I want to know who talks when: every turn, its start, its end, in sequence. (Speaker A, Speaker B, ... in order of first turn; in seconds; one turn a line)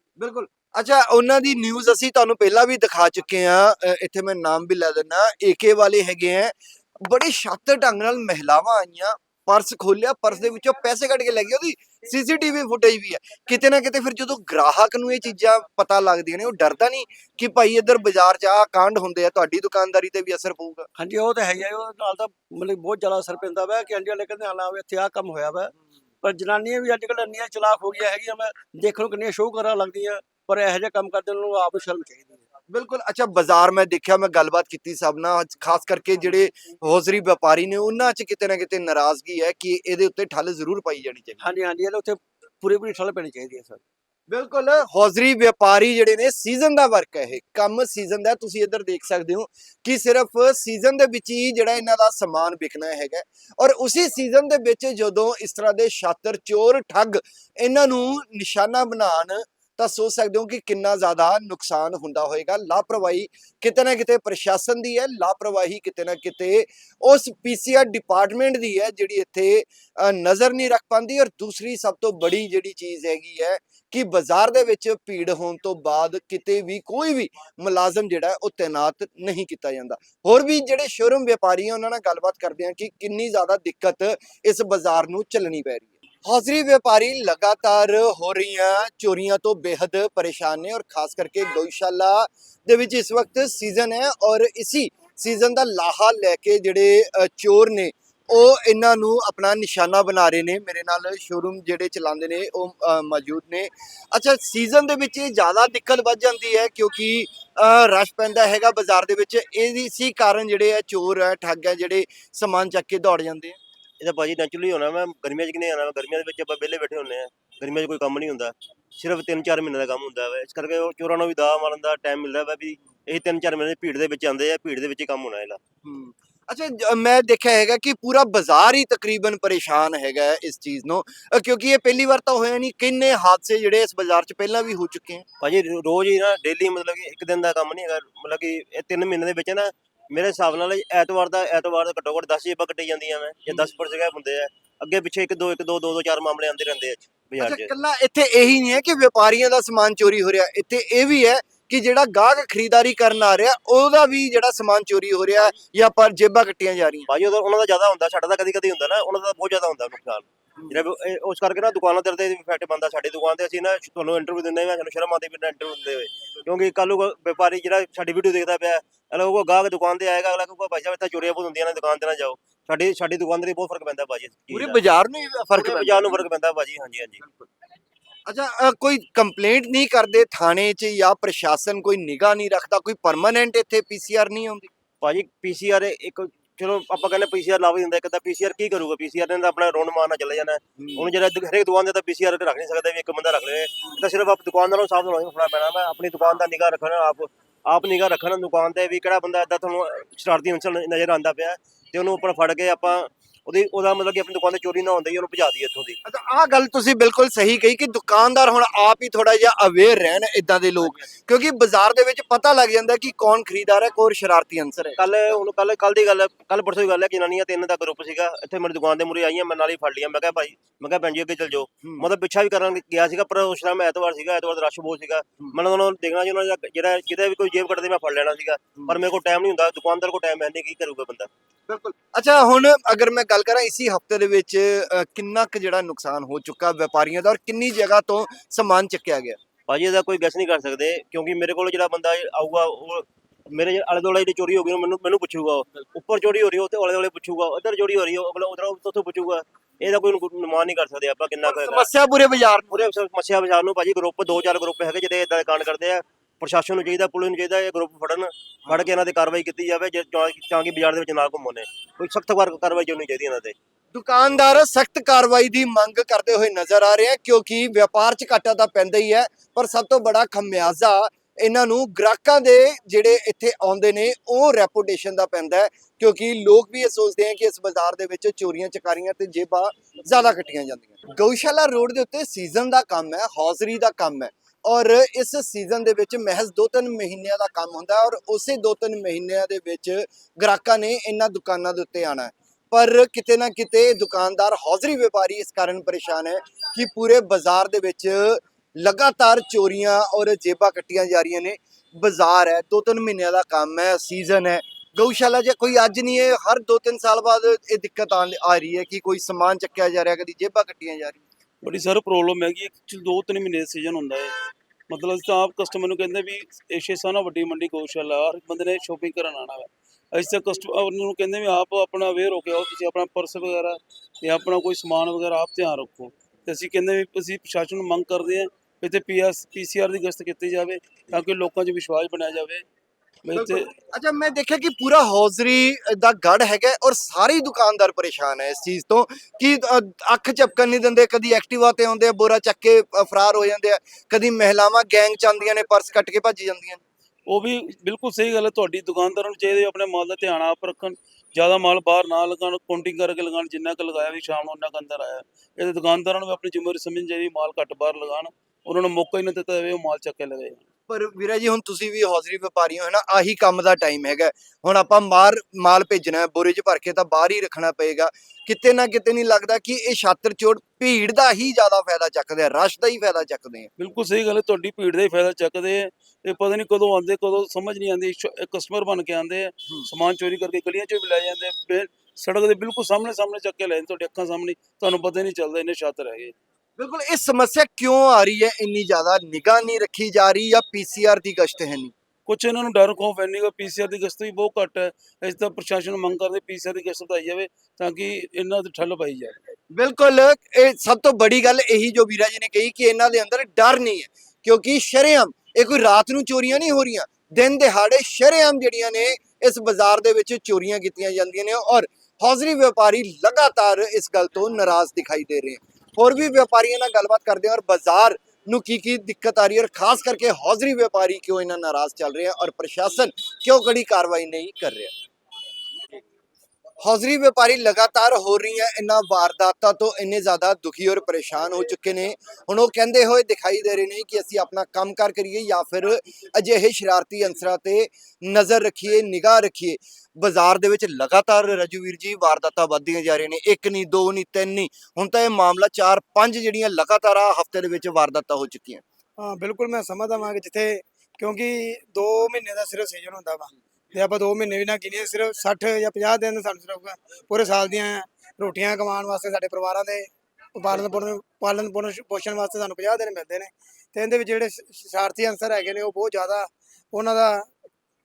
Speaker A: 0.2-6.5
Speaker A: 7.0-20.9
Speaker B: 20.9-32.5
Speaker A: 32.7-41.4
Speaker B: 41.4-43.8
Speaker A: 44.3-113.6
Speaker C: 114.0-125.6
Speaker A: 125.8-135.2
Speaker C: 135.4-147.7
Speaker A: 147.4-157.1
Speaker C: 157.1-174.8
Speaker A: 174.5-176.3
Speaker C: 175.6-177.2
Speaker A: 178.3-184.7
Speaker C: 185.0-206.0
Speaker A: 190.8-191.1
Speaker A: 206.1-215.0
Speaker C: 215.0-231.3
Speaker A: 221.8-222.1
Speaker A: 231.7-239.4
Speaker C: 239.7-251.9
Speaker A: 251.4-252.9
Speaker C: 252.7-263.6
Speaker A: 263.9-311.2
Speaker D: 311.6-314.3
Speaker D: 314.9-332.6
Speaker D: 333.2-333.7
Speaker A: 333.3-346.8
Speaker D: 347.3-360.6
Speaker A: 360.9-373.7
Speaker D: 373.8-386.3
Speaker A: 386.8-391.9
Speaker D: 392.3-399.3
Speaker A: 399.7-424.9
Speaker A: 426.8-448.8
Speaker E: 449.2-467.5